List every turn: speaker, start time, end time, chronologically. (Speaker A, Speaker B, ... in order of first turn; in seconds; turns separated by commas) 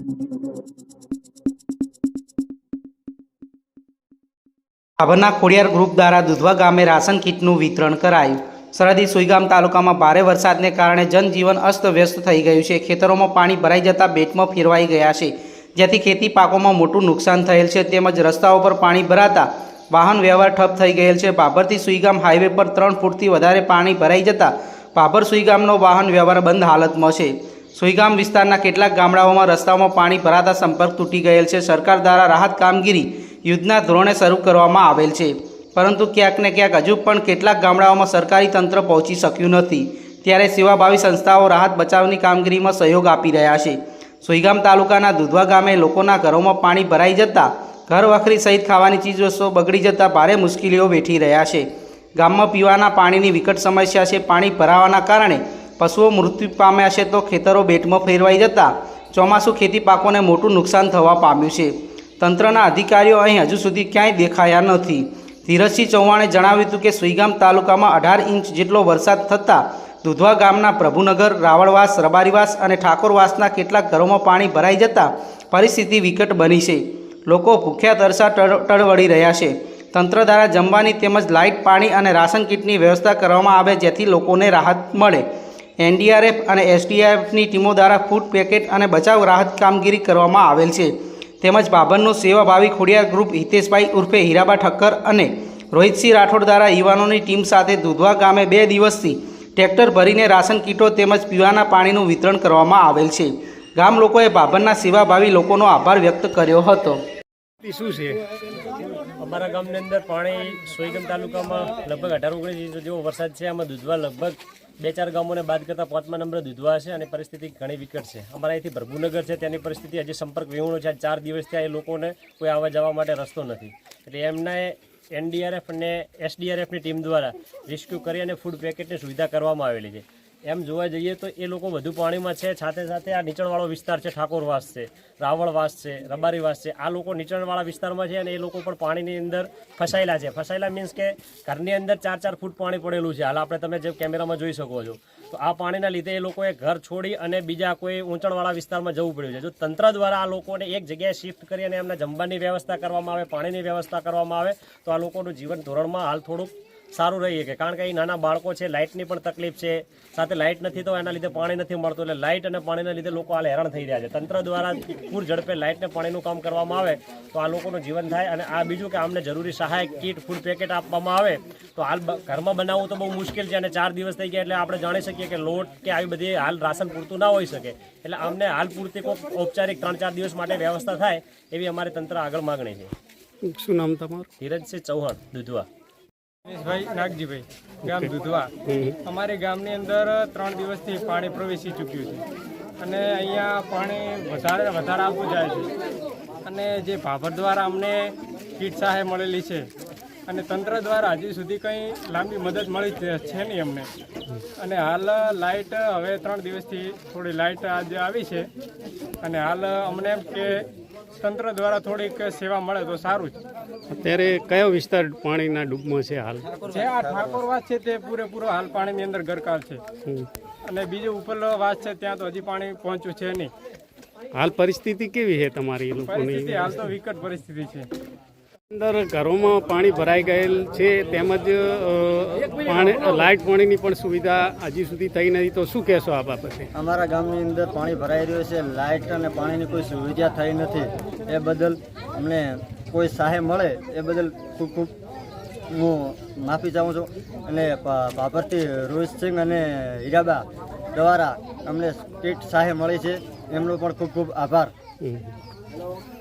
Speaker A: 5.0-85.2, Speaker A: 85.8-107.0, Speaker B: 107.6-108.2, Speaker C: 109.2-182.9, Speaker B: 183.4-184.3, Speaker C: 184.4-185.7, Speaker D: 186.5-188.5, Speaker B: 187.8-188.1, Speaker B: 188.7-189.0, Speaker D: 189.1-192.2, Speaker D: 192.8-195.7, Speaker D: 196.5-199.7, Speaker D: 200.3-203.9, Speaker D: 204.6-208.5, Speaker D: 209.2-210.6, Speaker D: 211.2-213.4, Speaker B: 213.9-216.5, Speaker E: 216.5-217.4, Speaker D: 216.7-219.8, Speaker D: 220.7-223.5, Speaker B: 224.4-226.9, Speaker D: 226.1-227.9, Speaker B: 228.7-236.7, Speaker E: 236.8-244.9, Speaker E: 245.7-254.7, Speaker B: 255.0-255.4